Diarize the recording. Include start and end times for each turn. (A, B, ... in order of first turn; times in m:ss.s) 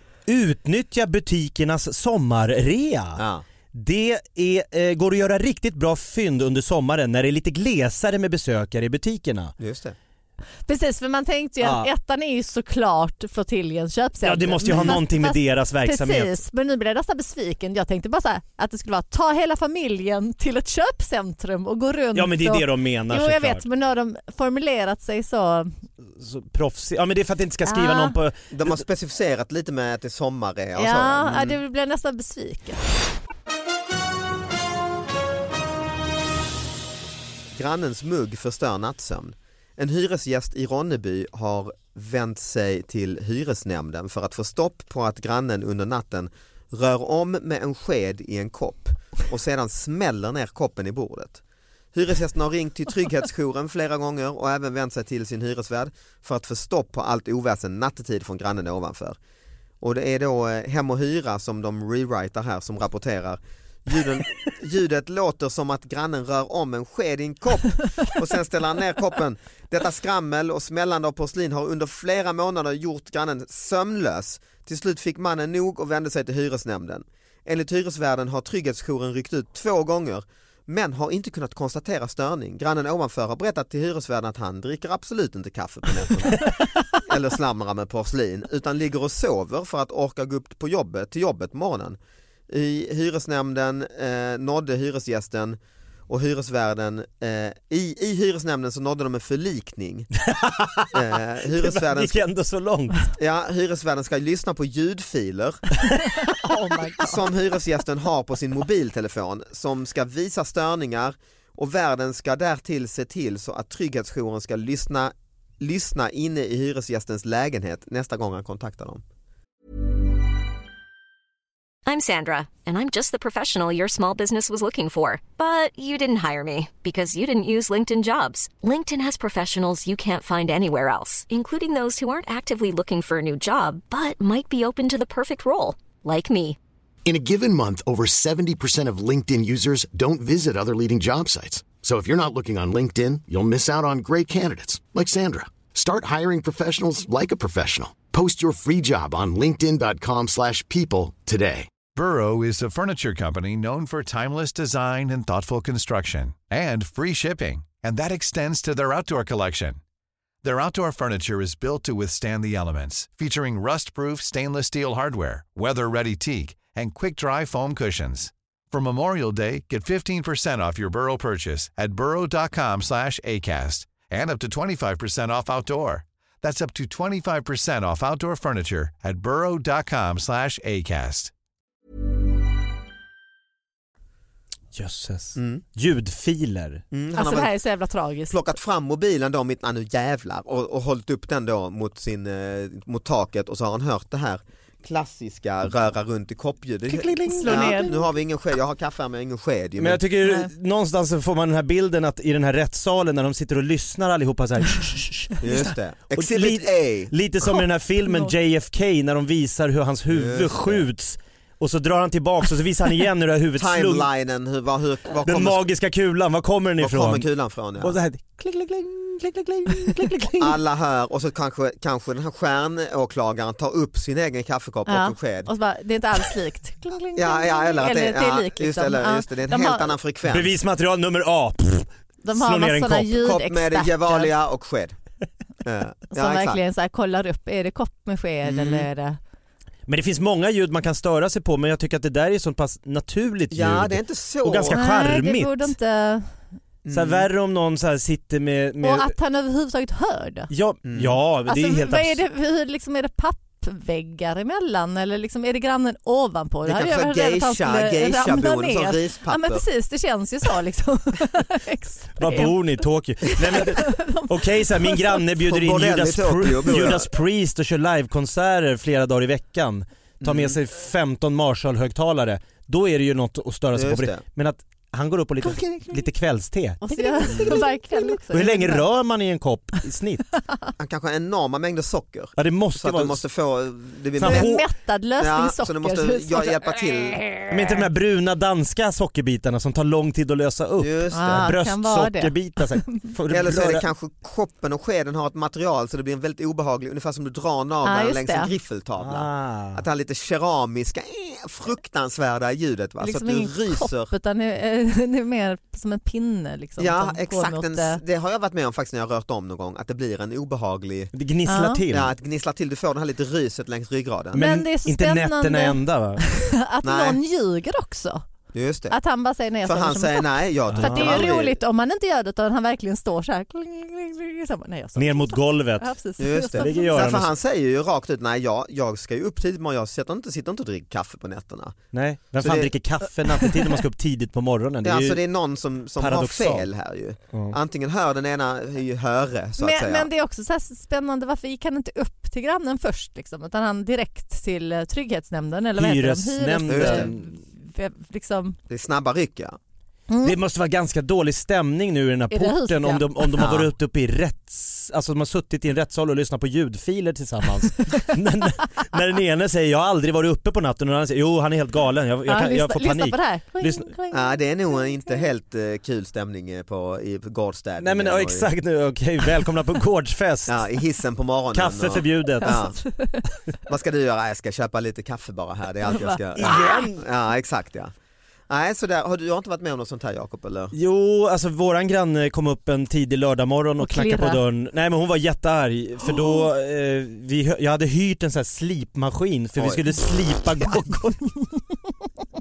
0:00.3-0:09.5 A
0:03.2-0:03.4 B
0:09.6-0:10.0 B
0:10.6-0:25.7 C
0:11.6-0:11.9 A
0:14.2-0:16.4 A
0:14.7-0:15.0 B
0:22.1-0:23.6 A
0:26.1-0:28.8 A
0:27.6-0:28.1 C
0:28.5-0:31.6 B
0:30.8-0:32.8 C
0:37.5-0:51.4 B
0:51.9-0:59.2 B
0:59.8-1:32.0 B
1:32.5-1:40.1 B
1:40.3-1:40.9 A
1:40.9-1:42.2 B
1:41.6-1:43.1 A
1:43.2-1:45.6 B
1:46.3-1:47.2 C
1:47.0-1:59.0 B
2:01.9-2:16.6 D
2:17.0-2:31.7 E
2:31.9-2:39.8 F
2:40.4-3:01.3 F
3:04.7-3:06.8 A
3:05.4-3:05.6 B
3:06.9-3:07.5 B
3:07.2-3:08.4 C
3:08.3-3:20.5 B
3:16.9-3:17.9 A
3:17.3-3:18.0 C
3:19.8-3:34.0 A
3:25.4-3:27.1 B
3:28.0-3:28.3 C
3:30.1-3:30.8 B
3:33.6-3:35.6 B
3:35.2-3:37.2 A
3:36.8-3:38.0 B
3:37.8-3:40.6 A
3:40.4-3:45.5 B
3:44.9-3:50.0 C
3:47.2-3:50.5 B
3:50.2-3:53.1 A
3:52.2-3:54.3 C
3:53.2-3:55.0 B
3:55.6-3:56.6 B
3:56.1-3:59.2 C
3:58.4-3:58.9 B
3:59.9-4:05.7 A
4:03.5-4:04.8 B
4:04.7-4:06.3 C
4:06.8-4:07.3 B
4:06.9-4:09.1 A
4:08.8-4:10.5 C
4:10.5-4:12.2 A
4:10.8-4:11.2 B
4:11.4-4:25.2 C
4:16.6-4:19.6 B
4:22.2-4:40.3 A
4:25.4-4:27.1 B
4:30.2-4:30.6 B
4:33.7-4:34.2 B
4:35.4-4:35.9 C
4:36.8-4:38.9 C
4:37.2-4:37.7 B
4:40.8-4:44.6 B
4:42.4-4:43.2 A
4:44.2-4:44.6 A
4:44.2-4:47.8 C
4:45.2-4:47.5 B
4:47.5-4:53.8 A
4:50.8-4:51.5 B
4:51.1-4:53.0 C
4:53.3-5:04.1 B
4:57.8-4:58.5 C
4:59.0-4:59.8 A
5:03.0-5:08.0 C
5:06.8-5:11.1 B
5:11.1-5:12.1 A
5:11.5-5:11.8 C
5:11.9-5:14.4 B
5:14.3-5:16.2 A
5:14.3-5:18.3 C
5:16.8-5:17.2 B
5:18.5-5:19.0 B
5:18.9-5:27.1 C
5:19.6-5:21.6 B
5:20.7-5:21.3 A
5:25.0-5:25.9 A
5:26.2-5:32.7 B
5:26.6-5:27.3 A
5:31.9-5:35.2 A
5:34.8-5:40.1 B
5:36.0-5:36.6 A
5:39.6-5:48.6 C
5:45.8-5:47.3 A
5:46.7-5:47.1 B
5:48.7-5:49.6 B
5:50.1-5:50.4 C
5:50.2-6:03.9 A
5:52.3-5:53.5 C
5:53.4-5:53.7 B
6:02.2-6:05.2 C
6:04.1-6:08.5 B
6:07.8-6:10.6 A
6:10.4-6:12.8 B
6:11.5-6:12.6 A
6:12.4-6:13.3 C
6:13.7-6:17.9 B
6:15.8-6:16.8 C
6:16.4-6:17.0 A
6:18.5-6:20.7 B
6:20.7-6:31.2 A
6:23.8-6:24.4 C
6:26.0-6:26.4 C
6:29.6-6:29.8 B
6:30.6-6:31.6 C